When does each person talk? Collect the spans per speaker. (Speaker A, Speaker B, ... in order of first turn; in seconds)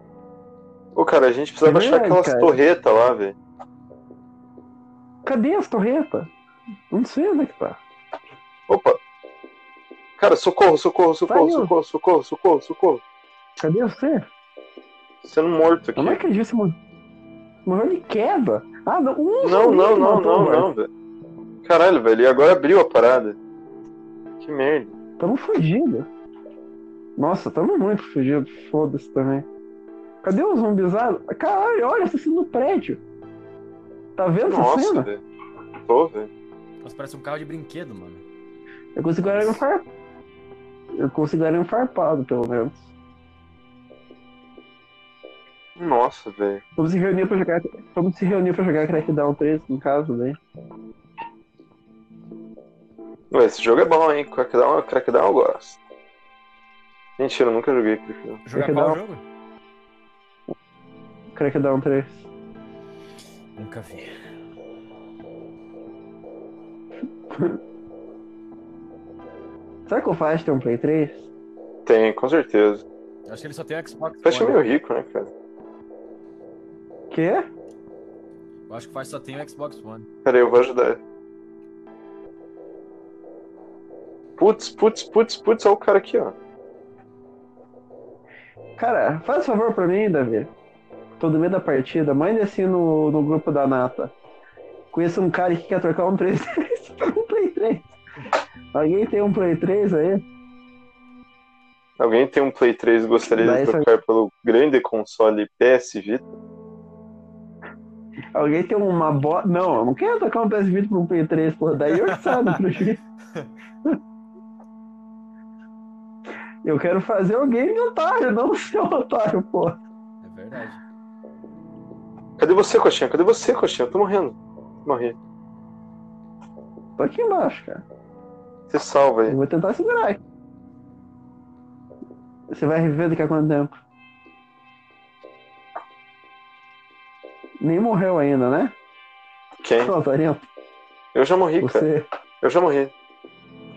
Speaker A: 1.0-3.4, 8.7-9.0, 10.2-13.0, 15.2-16.2, 19.4-20.9, 21.6-23.4, 24.4-24.9, 34.5-35.2, 35.9-36.3, 45.8-46.6, 53.3-55.8, 57.2-58.4, 71.8-72.8, 74.2-75.3, 80.2-81.0, 84.4-86.3, 102.0-106.3, 122.4-125.2, 128.7-129.4, 139.6-139.9, 141.1-141.9, 142.4-142.9
Speaker B: 1.6-2.5, 5.2-6.3, 6.9-7.8, 11.3-11.7, 13.6-14.3, 16.0-16.8, 17.7-20.7, 25.2-26.1, 27.2-29.5, 30.2-33.0, 34.2-35.1, 39.0-39.8, 41.0-42.9, 46.8-50.4, 58.5-59.0, 61.4-62.2, 67.3-67.6, 69.9-71.3, 77.1-77.5, 88.8-90.5, 91.2-94.1, 94.9-97.9, 98.7-100.2, 103.4-103.9, 108.3-113.0, 116.6-119.8, 127.0-127.8, 129.3-130.2, 132.5-133.7, 137.6-138.7, 139.8-140.4, 141.6-142.1
Speaker C: 36.8-38.2, 39.2-39.6, 58.5-59.2, 63.6-64.1, 73.3-74.6, 78.7-80.1, 112.1-112.5, 120.2-120.8